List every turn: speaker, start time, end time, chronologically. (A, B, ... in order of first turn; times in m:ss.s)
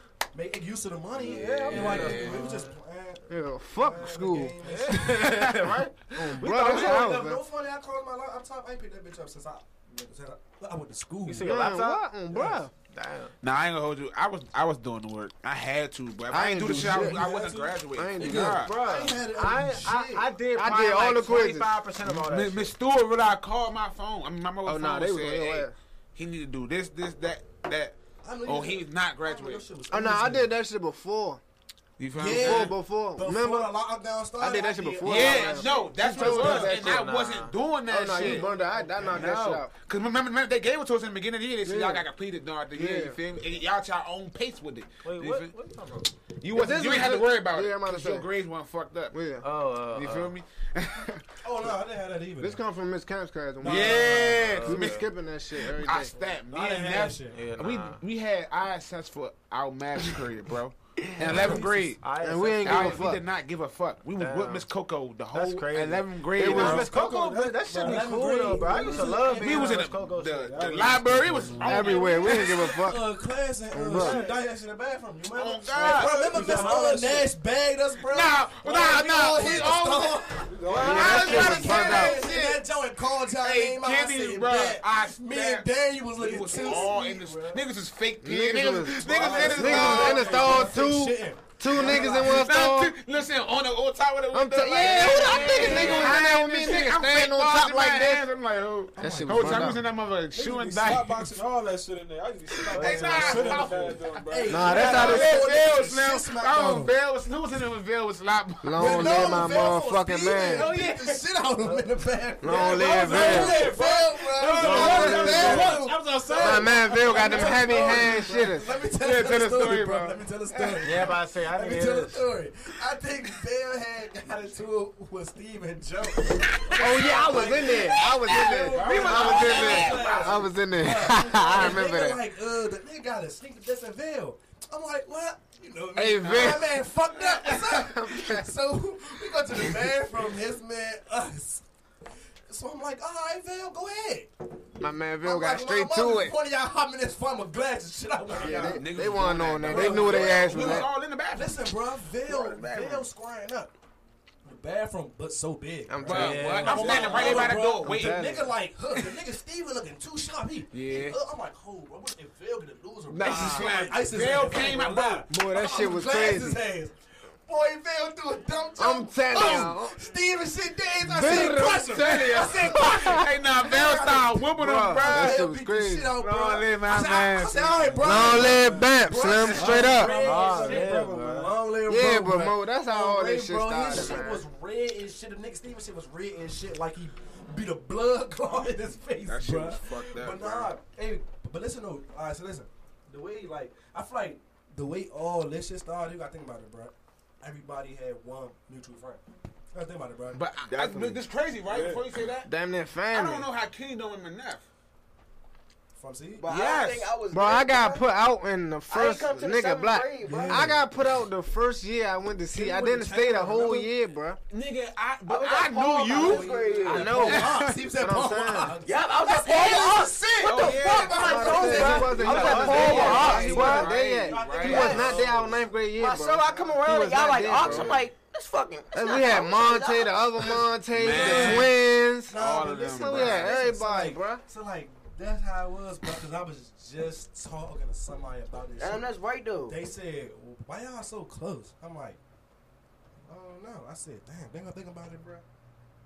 0:00.3-0:05.5 A
0:01.2-0:02.7 B
0:01.7-0:02.4 C
0:03.3-0:05.3 D
0:04.6-0:07.2 B
0:06.1-0:07.4 D
0:06.4-0:11.5 A
0:11.2-0:13.3 B
0:11.4-0:12.7 D
0:13.4-0:18.7 C
0:16.3-0:17.3 D
0:16.8-0:17.6 A
0:17.0-0:17.7 E
0:17.9-0:18.6 D
0:18.2-0:20.4 A
0:18.4-0:22.7 B
0:20.6-0:21.8 D
0:22.1-0:29.6 C
0:24.6-0:25.8 D
0:28.2-0:30.5 A
0:29.9-0:31.4 D
0:32.0-0:32.8 C
0:32.2-0:36.9 A
0:32.3-0:33.7 D
0:34.4-0:37.4 D
0:35.0-0:38.5 C
0:36.6-0:37.5 B
0:37.9-0:39.7 D
0:38.1-0:39.4 A
0:39.0-0:45.5 C
0:42.7-0:43.2 D
0:45.0-0:46.1 B
0:46.4-0:49.2 C
0:46.5-0:48.3 D
0:49.1-0:49.5 D
0:49.4-0:50.3 B
0:49.9-0:51.2 C
0:51.4-0:52.6 A
0:52.4-0:56.1 D
0:53.6-0:54.7 A
0:53.6-0:55.1 C
0:54.1-0:55.0 B
0:55.6-1:02.0 C
0:56.5-0:57.4 A
0:57.3-0:58.0 B
1:01.2-1:01.7 A
1:01.3-1:03.1 B
1:02.2-1:03.2 D
1:02.6-1:07.0 C
1:04.2-1:04.6 B
1:05.3-1:11.1 B
1:06.3-1:07.0 D
1:06.4-1:09.3 E
1:07.7-1:09.9 A
1:09.3-1:12.7 C
1:10.5-1:12.0 E
1:11.6-1:13.1 D
1:11.8-1:27.6 A
1:13.7-1:14.2 D
1:14.0-1:14.4 E
1:15.4-1:16.8 C
1:15.8-1:17.3 E
1:18.0-1:22.3 C
1:20.5-1:21.9 E
1:20.7-1:22.6 D
1:23.4-1:30.6 C
1:28.2-1:33.0 D
1:28.9-1:32.5 A
1:29.6-1:30.6 E
1:31.8-1:41.3 C
1:34.3-1:38.3 D
1:35.0-1:36.1 A
1:39.0-1:39.8 A
1:39.0-1:39.8 D
1:40.3-1:45.2 E
1:42.7-1:43.9 B
1:42.8-1:44.0 C
1:42.8-1:46.9 A
1:44.5-1:45.5 D
1:44.6-1:49.7 C
1:48.6-1:50.7 D
1:48.7-2:21.6 A
1:50.5-1:51.2 C
1:52.4-1:53.7 D
1:52.5-1:58.4 E
1:54.4-1:55.8 C
1:54.6-1:55.8 D
1:56.4-2:00.2 D
1:58.7-2:00.9 C
2:00.8-2:02.3 B
2:06.6-2:10.5 C
2:06.8-2:12.2 D
2:08.6-2:09.8 E
2:16.0-2:16.8 D
2:16.2-2:17.8 C
2:17.8-2:18.5 D
2:22.5-2:24.3 A
2:24.8-2:26.3 D
2:25.2-2:33.7 A
2:28.3-2:33.1 C
2:28.3-2:30.9 D
2:34.4-3:20.4 A
2:35.9-2:38.6 D
2:36.0-2:38.4 C
2:36.1-2:37.1 B
2:40.7-2:41.2 C
2:43.1-2:43.8 D
2:43.1-2:45.3 C
2:45.3-2:46.6 D
2:48.8-2:50.1 D
2:51.0-2:53.2 D
2:51.3-2:55.4 C
2:54.5-2:56.2 D
2:56.2-2:58.0 C
2:57.8-2:59.0 E
2:58.0-3:00.2 D
2:59.5-3:00.9 E
2:59.8-3:01.6 B
3:01.9-3:04.4 D
3:09.2-3:10.7 C
3:20.3-3:22.5 C
3:20.7-3:21.2 F
3:21.7-3:22.0 E
3:22.4-3:23.5 D
3:23.1-3:24.6 C
3:25.9-3:26.5 A
3:26.4-3:28.1 F
3:26.5-3:27.1 C
3:27.3-3:34.4 D
3:28.9-3:30.8 F
3:30.2-3:30.8 A
3:32.5-3:33.9 A
3:34.5-3:37.7 C
3:35.3-3:37.4 F
3:36.0-3:45.7 A
3:36.8-3:38.8 D
3:38.8-3:43.9 F
3:40.4-3:45.2 C
3:41.1-3:48.0 D
3:42.1-3:43.8 B
3:44.6-3:45.2 F
3:46.0-3:50.6 F
3:46.5-3:46.8 A
3:47.6-3:48.0 C
3:48.9-3:54.4 D
3:50.9-3:51.8 C
3:51.1-3:51.7 A
3:52.3-3:59.1 A
3:52.3-3:53.6 C
3:58.8-3:59.8 F
3:59.7-4:02.2 A
4:03.3-4:05.4 A